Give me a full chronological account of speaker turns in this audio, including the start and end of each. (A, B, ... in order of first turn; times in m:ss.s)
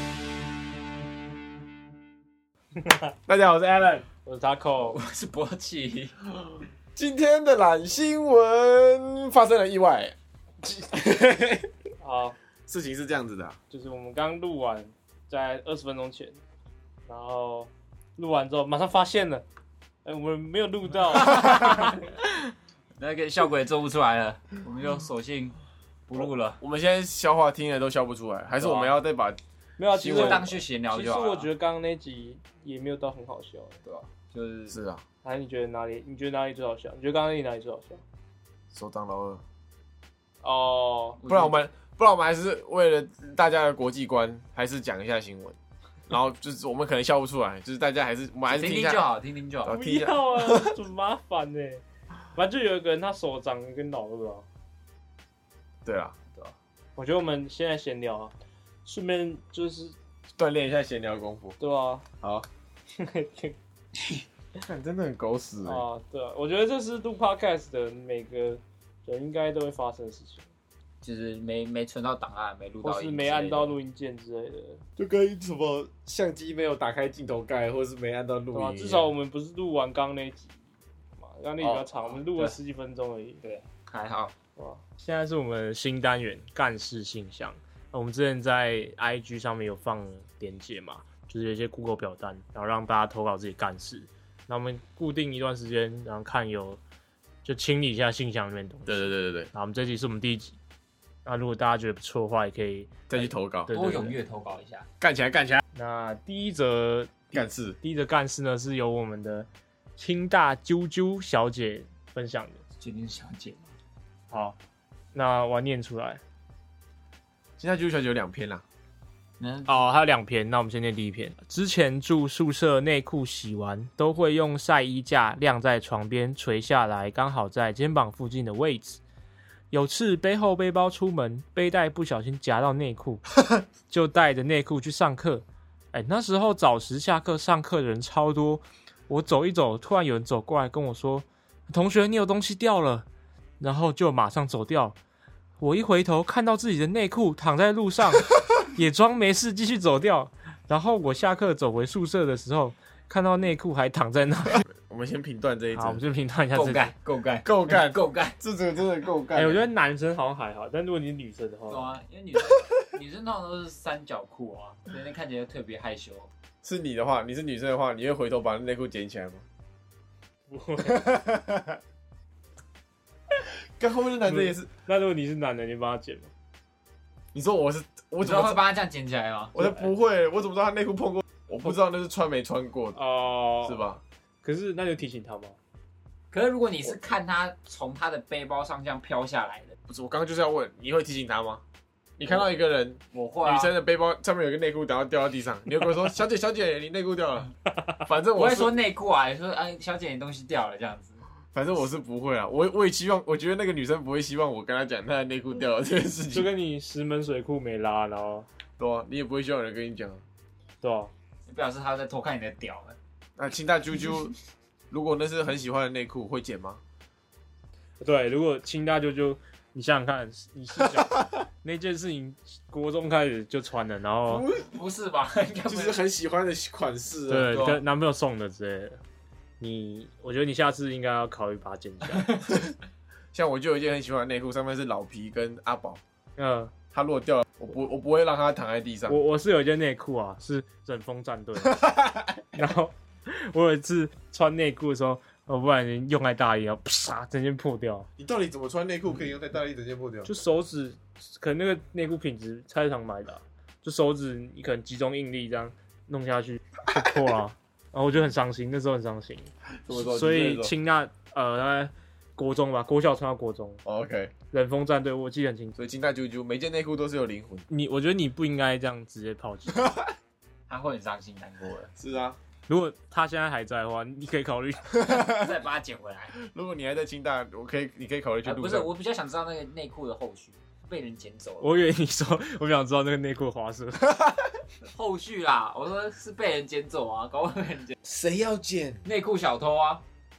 0:03.3-0:04.0 A
0:04.2-0:05.0 B
0:04.8-0:06.2 C
0:06.9-0:10.2 A
0:10.8-0:11.6 A
0:12.0-0:12.4 B
0:12.7-0:13.6 A
0:13.7-0:16.4 B
0:17.0-0:19.4 B
0:20.0-0:22.0 B
0:21.4-0:21.9 C
0:23.0-0:26.6 C
0:26.2-0:29.4 A
0:28.6-0:28.9 C
0:29.8-0:33.8 B
0:29.9-0:30.6 A
0:30.0-0:31.5 C
0:33.8-0:34.8 C
0:34.7-0:35.0 A
0:35.2-0:38.0 B
0:38.7-0:39.4 A
0:40.4-0:41.2 B
0:41.2-0:41.6 C
0:41.3-0:45.6 A
0:46.1-0:49.0 A
0:48.5-0:49.8 C
0:49.6-0:50.8 A
0:49.7-0:51.8 B
0:52.3-0:54.4 B
0:55.8-0:56.2 A
0:57.0-0:58.3 B
0:58.8-1:00.0 B
1:00.4-1:01.6 A
1:01.6-1:02.0 B
1:02.2-1:02.4 A
1:02.9-1:03.6 B
1:04.6-1:05.8 A
1:05.6-1:10.4 B
1:11.0-1:13.8 C
1:12.8-1:14.8 B
1:15.0-1:19.1 A
1:18.5-1:20.6 B
1:21.2-1:23.4 B
1:21.6-1:22.6 C
1:23.4-1:24.3 C
1:24.6-1:36.8 B
1:37.4-1:40.6 B
1:38.9-1:39.5 A
1:41.2-1:44.1 B
1:43.1-1:43.7 A
1:43.7-1:44.9 C
1:45.0-1:45.6 A
1:45.7-1:52.6 B
1:47.3-1:47.8 A
1:52.8-1:53.7 C
1:54.3-1:54.6 B
1:55.1-1:56.2 B
1:57.6-1:58.6 A
1:59.4-1:59.9 C
1:59.7-2:09.0 B
2:09.7-2:13.2 B
2:13.9-2:23.1 B
2:23.6-2:25.0 B
2:25.6-2:34.6 B
2:34.7-2:36.0 A
2:35.7-2:36.9 B
2:36.5-2:38.4 C
2:37.4-2:39.7 A
2:39.3-2:42.0 B
2:41.7-2:46.3 C
2:46.6-2:49.4 A
2:50.5-2:51.2 B
2:51.0-2:51.2 A
2:53.8-2:54.7 A
2:54.2-2:56.3 B
2:57.3-2:58.6 A
2:58.2-2:59.6 C
2:59.5-3:03.0 A
2:59.6-2:59.8 B
3:02.9-3:03.9 B
3:03.6-3:04.0 A
3:04.4-3:05.6 B
3:06.3-3:09.7 C
3:09.9-3:11.6 A
3:12.2-3:18.8 A
3:13.1-3:13.7 C
3:18.3-3:21.2 C
3:21.5-3:26.5 A
3:26.3-3:28.5 B
3:28.8-3:30.2 A
3:30.8-3:31.1 B
3:31.5-3:33.0 C
3:33.4-3:34.3 A
3:34.9-3:36.8 A
3:38.0-3:44.5 B
3:44.4-3:46.0 C
3:45.7-3:47.6 A
3:47.3-3:49.0 B
3:47.5-3:47.8 C
3:49.6-3:52.4 B
3:53.3-3:56.0 A
3:56.4-3:56.7 B
3:56.9-3:59.2 A
3:59.1-4:01.8 B
4:01.8-4:02.3 A
4:02.5-4:08.1 B
4:08.2-4:10.3 A
4:10.2-4:23.8 B
4:19.8-4:20.7 A
4:23.8-4:24.3 A
4:24.5-4:25.8 B
4:25.8-4:27.6 A
4:27.7-4:30.0 B
4:30.7-4:31.9 C
4:32.0-4:32.4 A
4:32.7-4:35.2 B
4:35.0-4:36.3 C
4:36.4-4:38.9 A
4:38.4-4:41.8 C
4:41.6-4:44.4 B
4:44.8-4:48.0 C
4:48.0-4:49.0 A
4:49.0-4:50.0 C